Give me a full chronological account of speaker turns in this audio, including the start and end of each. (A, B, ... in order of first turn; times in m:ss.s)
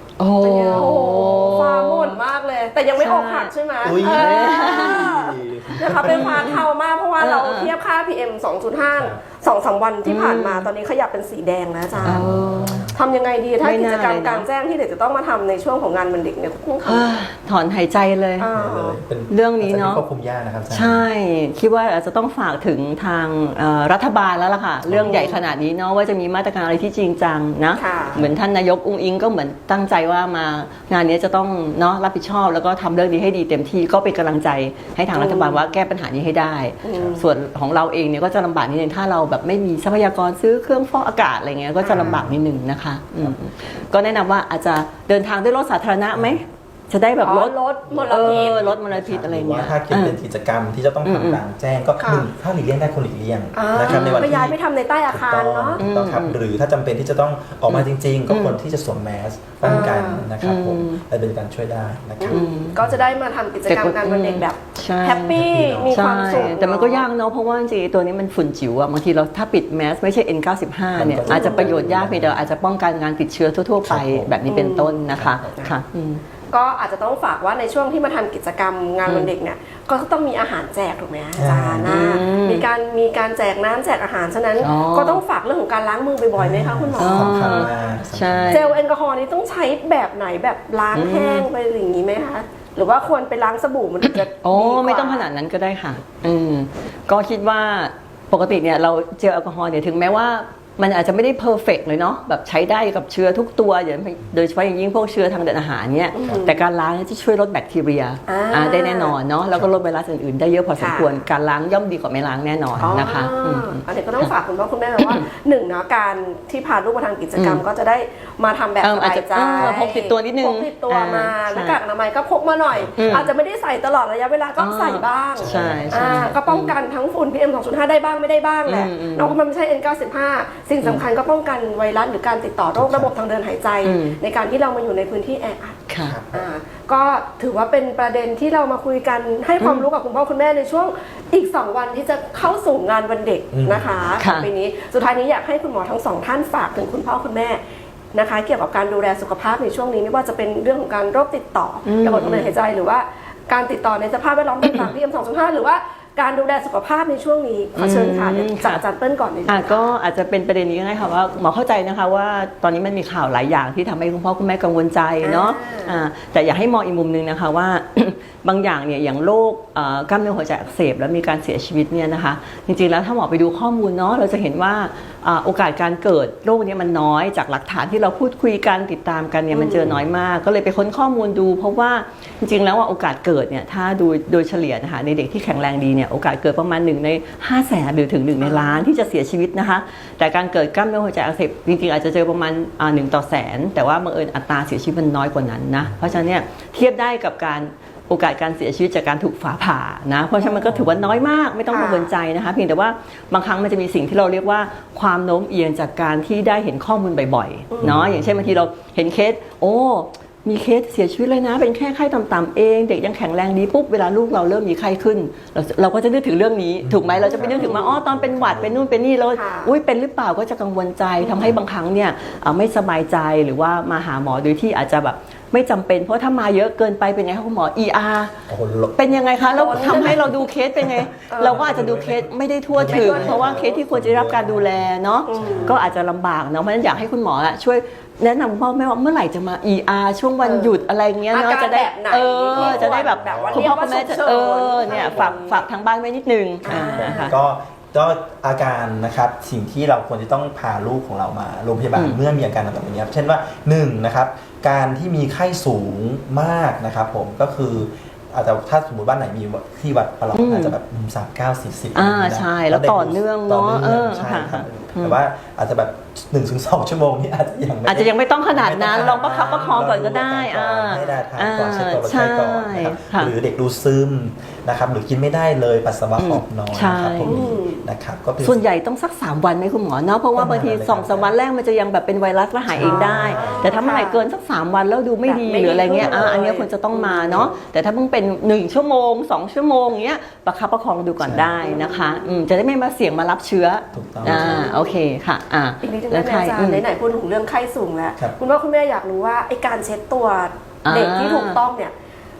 0:00.2-0:02.2 A
0:00.4-0:12.3 B
0:03.0-0:05.2 A
0:03.8-0:06.6 C
0:05.9-0:06.6 A
0:07.2-0:07.7 A
0:10.0-0:10.7 A
0:11.9-0:13.0 C
0:12.0-0:12.9 A
0:12.9-0:17.2 B
0:13.6-0:14.5 A
0:16.8-0:18.5 A
0:18.4-0:19.0 B
0:18.5-0:21.0 C
0:19.3-0:20.0 A
0:20.7-0:47.5 A
0:24.8-0:25.3 C
0:25.0-0:25.4 B
0:27.8-0:28.2 B
0:35.1-0:35.6 B
0:36.8-0:37.2 B
0:41.8-0:42.2 B
0:41.9-0:42.4 C
0:46.1-0:46.4 C
0:47.2-0:48.7 B
0:47.9-0:54.6 C
0:48.1-0:50.1 A
0:51.0-0:51.4 A
0:52.0-0:52.2 B
0:53.5-0:55.8 B
0:53.8-0:54.3 A
0:55.1-1:03.0 C
0:55.8-0:56.4 A
0:57.7-0:58.6 A
0:59.6-1:00.3 B
0:59.6-1:01.0 A
1:02.2-1:07.0 B
1:02.3-1:02.8 A
1:03.7-1:16.2 A
1:05.3-1:06.5 C
1:10.9-1:12.5 C
1:11.3-1:11.8 B
1:13.8-1:14.4 C
1:14.5-1:15.0 B
1:15.1-1:15.5 C
1:16.5-1:27.7 B
1:19.0-1:19.3 A
1:21.4-1:22.0 C
1:21.8-1:22.6 A
1:24.6-1:25.2 A
1:26.4-1:28.7 C
1:27.0-1:28.8 A
1:28.5-1:35.3 B
1:30.9-1:31.5 A
1:34.4-1:54.3 A
1:46.1-1:46.6 B
1:48.3-1:49.2 B
1:50.8-1:51.2 B
1:52.7-1:53.1 C
1:52.8-2:27.6 B
1:55.0-1:55.2 A
1:57.4-1:57.6 A
1:58.8-2:01.8 A
2:02.7-2:03.3 C
2:03.0-2:03.3 A
2:04.6-2:06.7 A
2:05.4-2:06.2 C
2:08.7-2:09.4 A
2:12.7-2:13.1 C
2:13.8-2:14.2 A
2:15.9-2:16.2 A
2:16.0-2:16.4 C
2:19.6-2:19.9 A
2:23.5-2:23.9 C
2:24.2-2:24.5 A
2:28.1-2:39.9 B
2:31.8-2:32.5 A
2:37.8-2:38.8 A
2:39.5-3:48.4 A
2:45.2-2:45.9 B
2:59.5-2:59.9 B
2:59.8-3:00.1 C
3:08.4-3:08.8 B
3:15.8-3:16.1 C
3:20.4-3:20.8 B
3:20.7-3:21.2 C
3:21.7-3:22.1 B
3:27.7-3:28.0 B
3:27.8-3:28.7 C
3:36.8-3:39.0 C
3:37.3-3:38.0 B
3:39.3-3:39.7 B
3:48.5-3:49.2 C
3:48.9-4:07.3 A
3:49.4-3:50.4 B
3:49.7-3:56.0 C
3:51.3-3:51.6 B
3:52.8-3:53.8 B
3:55.3-3:55.8 B
4:00.4-4:00.8 B
4:01.3-4:05.6 B
4:02.5-4:03.7 C
4:04.8-4:05.3 C
4:06.6-4:07.3 B
4:06.7-4:38.6 C
4:20.3-4:20.7 A
4:21.9-4:25.2 A
4:27.8-4:33.3 A
4:36.2-4:37.3 A
4:37.2-4:37.8 B
4:38.4-4:56.8 A
4:40.3-4:41.3 C
4:42.7-4:43.8 C
4:42.8-4:44.2 B
4:45.2-4:47.6 B
4:46.0-4:46.4 C
4:51.2-4:51.7 C
4:51.6-4:52.4 B
4:53.9-4:54.6 C
4:54.2-4:55.0 B
4:55.8-5:01.9 B
5:00.8-5:01.6 A